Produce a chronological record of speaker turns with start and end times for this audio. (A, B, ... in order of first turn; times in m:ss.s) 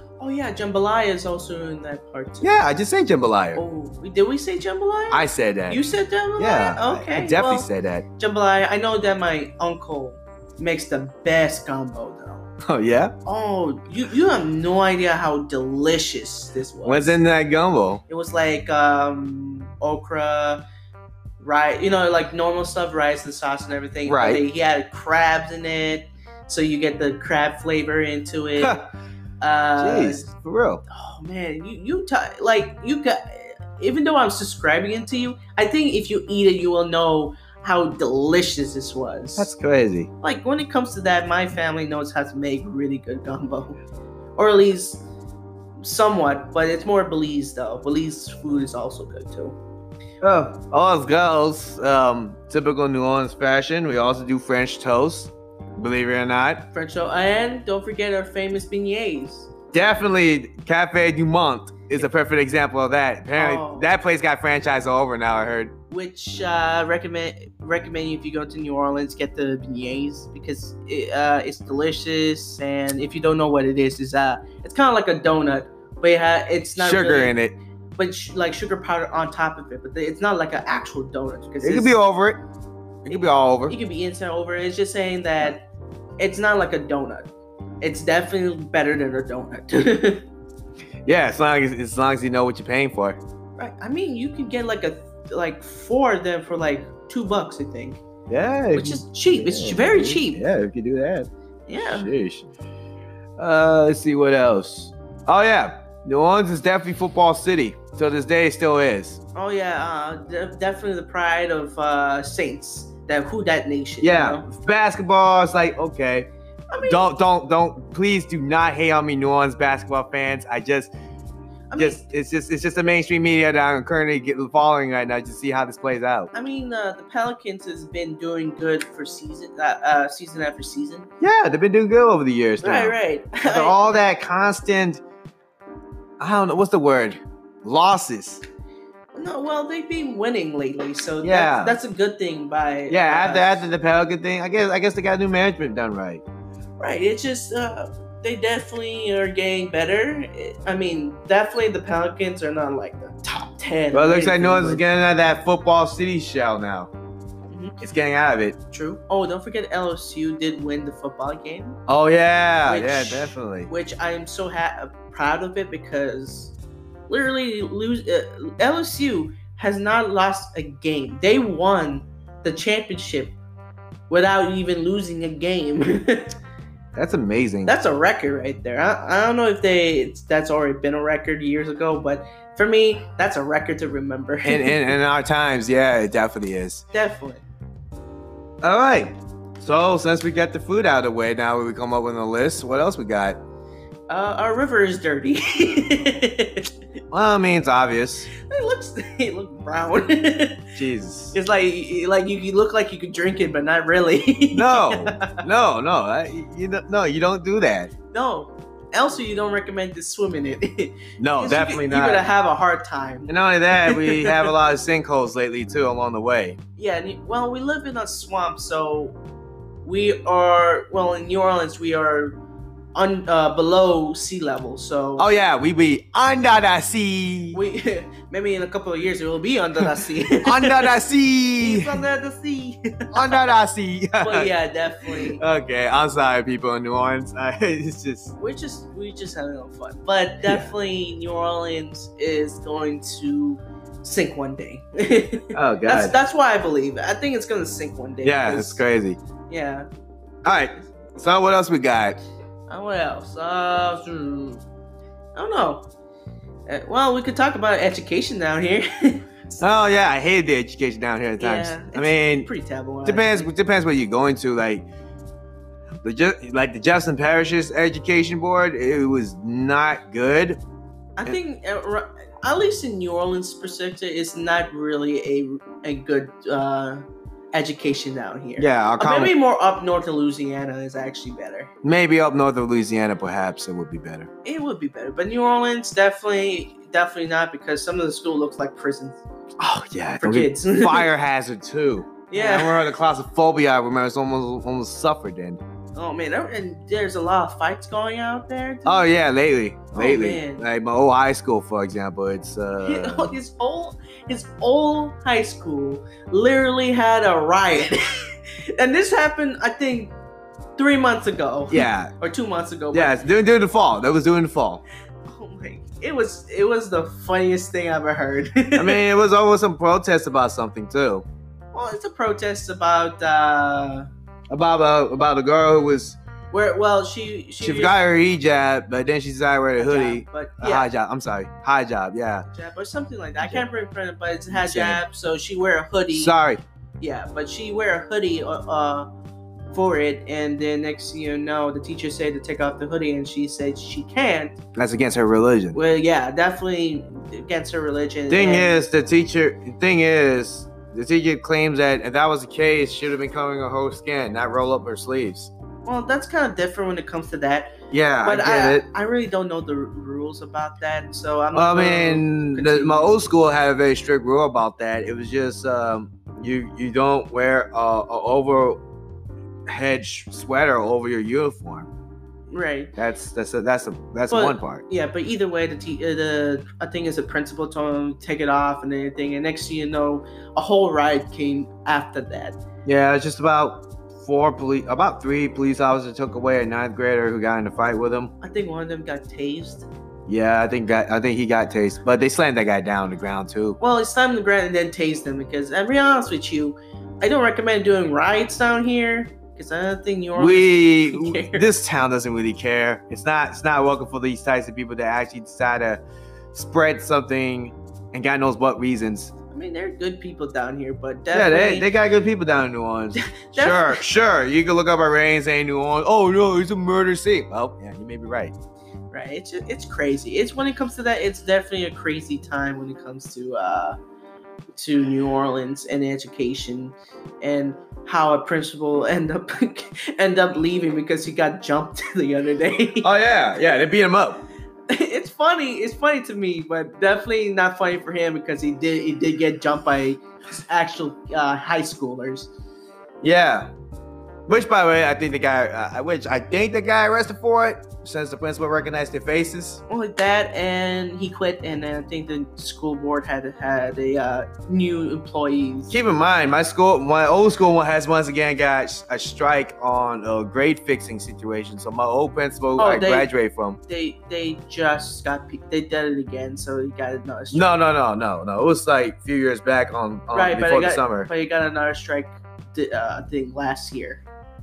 0:00.2-0:02.5 A
0:02.4-0:03.6 B
0:03.5-0:07.7 A
0:05.1-0:05.8 B
0:06.4-0:08.0 B
0:08.2-0:12.4 A
0:12.6-0:13.1 B
0:13.2-0:17.2 A
0:16.8-0:18.0 B
0:18.1-0:20.6 A
0:21.4-0:28.9 A
0:24.0-0:24.4 B
0:29.4-0:30.3 A
0:29.8-0:30.8 B
0:30.9-0:39.5 A
0:39.4-0:40.1 B
0:40.2-0:43.8 A
0:44.4-0:45.0 A
0:45.8-0:49.6 A
0:50.2-0:56.7 B
0:56.7-0:59.5 A
0:59.7-1:05.7 B
1:03.4-1:03.9 A
1:05.9-1:17.3 A
1:16.8-1:17.6 B
1:18.0-1:22.0 A
1:21.6-1:22.4 B
1:23.0-1:23.8 B
1:23.1-1:25.6 A
1:26.2-1:27.3 A
1:27.8-1:30.2 A
1:31.0-1:33.2 B
1:33.6-1:38.0 A
1:38.3-1:42.5 B
1:38.7-1:40.4 A
1:41.7-1:42.1 A
1:43.4-1:49.2 B
1:49.3-1:54.4 A
1:54.0-1:56.3 B
1:56.7-1:57.0 A
1:56.8-2:00.9 B
2:01.7-2:02.1 A
2:01.8-2:06.3 B
2:06.3-2:11.1 A
2:11.2-2:15.0 B
2:12.6-2:14.0 A
2:16.2-2:18.4 B
2:19.1-2:23.6 A
2:21.2-2:21.8 B
2:22.9-2:26.2 B
2:26.8-2:34.8 A
2:33.9-2:36.9 B
2:37.5-2:37.8 A
2:37.8-2:38.6 B
2:38.7-2:41.8 A
2:41.9-2:43.7 B
2:42.6-2:46.5 A
2:47.1-2:53.4 A
2:54.1-2:56.3 A
2:56.9-2:57.7 B
2:57.6-3:04.8 A
3:04.4-3:06.8 B
3:06.9-3:07.4 A
3:08.6-3:13.4 B
3:14.1-3:16.7 A
3:17.1-3:18.3 B
3:18.4-3:20.7 A
3:20.8-3:21.3 B
3:21.3-3:25.4 A
3:24.5-3:27.9 B
3:28.1-3:34.5 A
3:31.2-3:32.2 B
3:33.3-3:36.6 B
3:36.8-3:39.2 A
3:39.8-3:42.4 A
3:42.9-3:45.3 A
3:45.2-3:47.6 B
3:47.5-3:50.9 A
3:50.4-3:52.0 B
3:51.6-3:53.5 A
3:53.1-3:54.5 B
3:54.2-3:55.4 A
3:55.1-3:58.3 B
3:58.4-4:08.8 A
4:05.5-4:06.1 B
4:08.2-4:09.2 B
4:09.5-4:09.9 A
4:10.4-4:12.2 B
4:12.7-4:14.6 A
4:15.4-4:15.8 A
4:16.7-4:19.6 A
4:19.6-4:22.5 B
4:21.4-4:23.5 A
4:23.0-4:24.9 B
4:26.0-4:30.6 B
4:31.2-4:41.7 A
4:38.6-4:39.3 B
4:41.8-4:44.3 B
4:44.4-4:49.2 A
4:49.6-4:55.6 B
4:50.2-4:51.1 A
4:52.3-4:52.9 A
4:55.9-4:59.1 A
4:58.8-5:03.3 B
4:59.9-5:00.6 A
5:02.8-5:10.1 A
5:10.8-5:13.2 A
5:11.7-5:12.1 B
5:12.9-5:14.8 B
5:15.3-5:19.0 A
5:18.8-5:21.2 B
5:21.7-5:24.1 A
5:24.5-5:26.2 B
5:26.5-5:28.0 A
5:27.6-5:32.4 B
5:29.8-5:30.9 A
5:32.5-5:36.3 A
5:34.5-5:35.0 B
5:36.1-5:36.6 B
5:37.0-5:39.1 A
5:39.7-5:44.6 A
5:44.7-5:45.8 B
5:45.7-5:48.8 A
5:48.3-5:55.5 B
5:55.8-6:03.2 A
5:57.9-5:58.8 B
6:01.5-6:08.8 B
6:09.7-6:11.9 B
6:12.5-6:12.9 A
6:13.0-6:14.8 B
6:14.3-6:22.6 A
6:22.8-6:28.3 B
6:28.4-6:29.9 A
6:30.3-6:33.8 B
6:33.8-6:41.7 A
6:40.3-6:46.0 B
6:46.5-6:49.3 B
6:49.5-6:51.9 A
6:51.3-6:58.5 B
6:53.2-6:54.0 A
6:59.1-7:04.0 A
7:04.7-7:13.1 A
7:13.0-7:14.4 B
7:14.9-7:22.5 A
7:23.2-7:23.7 B
7:24.5-7:29.8 B
7:29.9-7:35.9 A
7:35.9-7:43.8 B
7:42.8-7:43.3 A
7:43.9-7:47.8 A
7:47.5-7:51.3 B
7:50.3-7:54.2 A